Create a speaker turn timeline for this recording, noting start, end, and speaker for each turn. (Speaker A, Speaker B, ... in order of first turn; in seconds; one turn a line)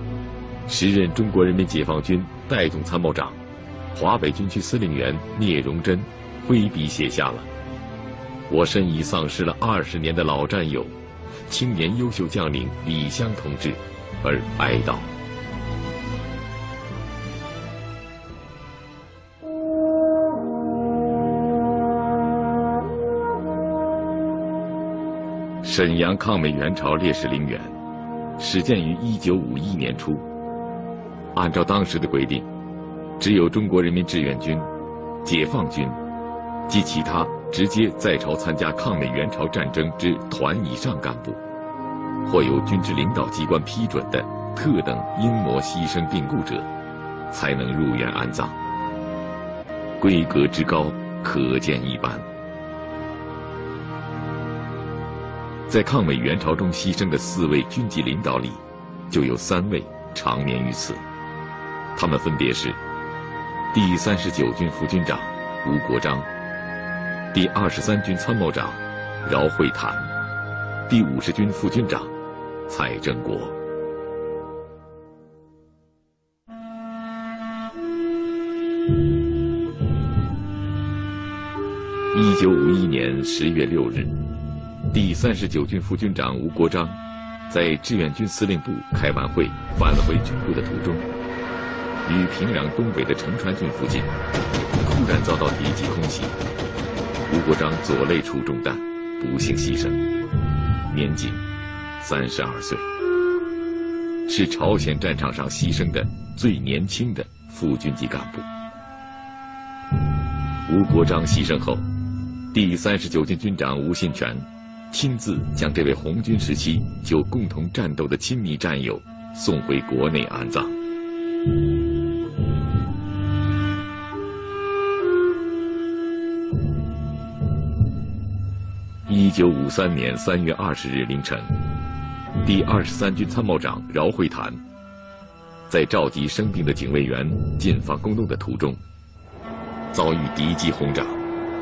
Speaker A: 0.7-3.4
Speaker A: 3.9-7.5
Speaker A: 8.5-10.9
Speaker A: 11.5-15.1
Speaker A: 25.6-27.8
Speaker A: 28.4-30.2
Speaker A: 31.3-32.5
Speaker A: 33.2-34.7
Speaker A: 35.2-36.0
Speaker A: 36.7-41.4
Speaker A: 42.2-46.7
Speaker A: 47.3-48.5
Speaker A: 50.0-52.2
Speaker A: 55.7-61.0
Speaker A: 61.9-62.8
Speaker A: 63.7-66.3
Speaker A: 67.3-70.1
Speaker A: 70.9-72.1
Speaker A: 72.7-73.5
Speaker A: 82.1-84.1
Speaker A: 84.9-91.0
Speaker A: 92.0-94.1
Speaker A: 94.8-96.3
Speaker A: 97.3-100.0
Speaker A: 100.9-101.4
Speaker A: 102.0-102.8
Speaker A: 104.3-108.5
Speaker A: 110.7-111.8
Speaker A: 112.5-120.8
Speaker A: 129.1-131.5
Speaker A: 132.4-134.6
Speaker A: 135.7-138.8
Speaker A: 139.9-141.2